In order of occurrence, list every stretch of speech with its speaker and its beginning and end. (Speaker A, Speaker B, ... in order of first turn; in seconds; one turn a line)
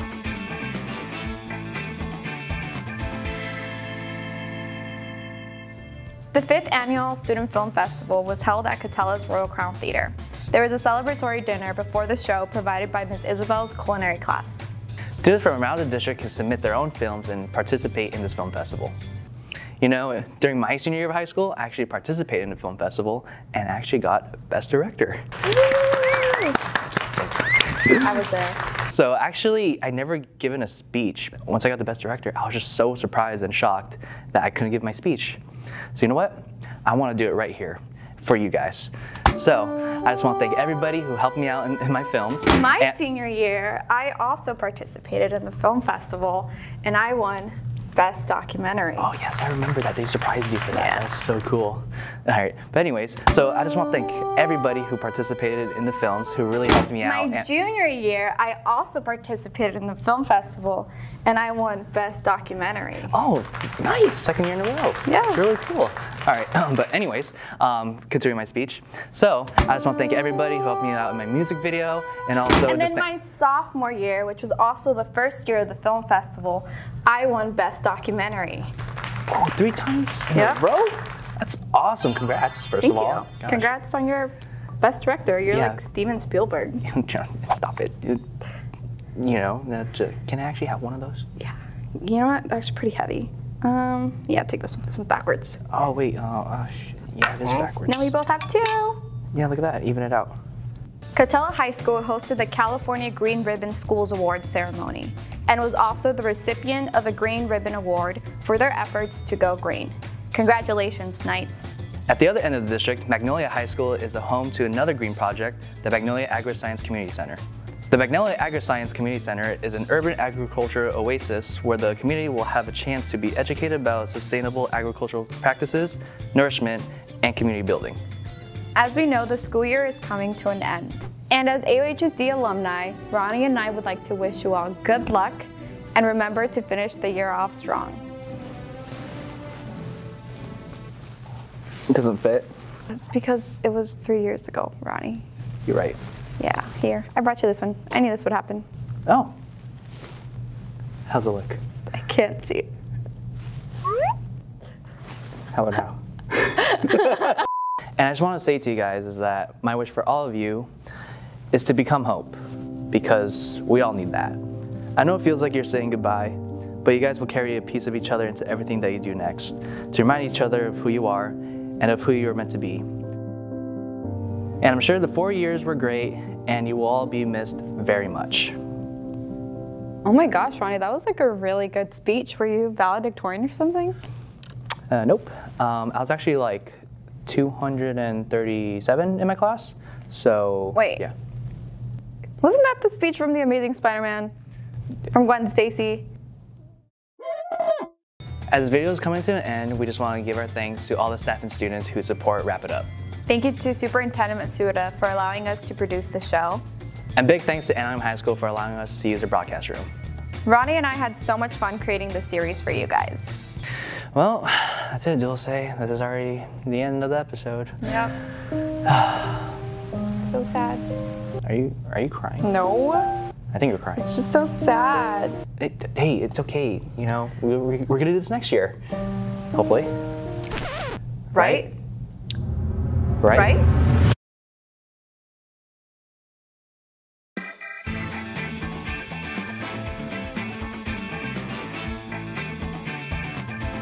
Speaker A: 6.3-14.7
Speaker B: 15.2-18.9
Speaker B: 19.8-25.2
Speaker A: 25.9-26.2
Speaker A: 28.0-28.6
Speaker B: 28.9-35.4
Speaker B: 35.9-43.0
Speaker A: 42.5-49.1
Speaker B: 49.0-57.5
Speaker A: 50.7-51.0
Speaker A: 57.0-63.2
Speaker B: 63.1-73.1
Speaker A: 65.1-65.5
Speaker A: 72.7-78.7
Speaker B: 79.3-83.7
Speaker A: 80.3-80.6
Speaker A: 82.8-86.8
Speaker B: 85.5-85.8
Speaker B: 86.8-88.2
Speaker B: 89.2-91.2
Speaker A: 91.4-95.6
Speaker B: 95.7-98.1
Speaker A: 97.8-99.0
Speaker B: 99.3-100.4
Speaker A: 101.1-111.7
Speaker B: 112.1-128.0
Speaker A: 128.8-138.0
Speaker B: 141.9-142.5
Speaker A: 142.9-145.2
Speaker B: 145.7-146.0
Speaker A: 146.4-148.7
Speaker B: 149.1-149.3
Speaker B: 151.1-151.6
Speaker A: 151.9-152.7
Speaker B: 155.5-157.4
Speaker B: 158.0-160.7
Speaker B: 161.5-162.4
Speaker B: 162.9-164.4
Speaker B: 165.0-172.8
Speaker B: 174.6-178.6
Speaker A: 180.1-184.0
Speaker B: 184.9-191.1
Speaker A: 190.8-191.0
Speaker A: 192.4-194.3
Speaker A: 195.1-196.1
Speaker B: 198.5-202.9
Speaker A: 203.3-206.6
Speaker B: 207.2-209.9
Speaker A: 210.4-213.3
Speaker B: 214.1-217.7
Speaker A: 217.8-218.2
Speaker B: 218.9-219.5
Speaker A: 220.2-220.8
Speaker B: 221.4-222.5
Speaker A: 222.4-223.1
Speaker B: 223.5-224.1
Speaker A: 224.0-225.4
Speaker B: 225.6-228.8
Speaker B: 229.5-229.9
Speaker B: 231.3-231.7
Speaker A: 231.4-231.7
Speaker B: 233.2-233.6
Speaker A: 233.3-233.7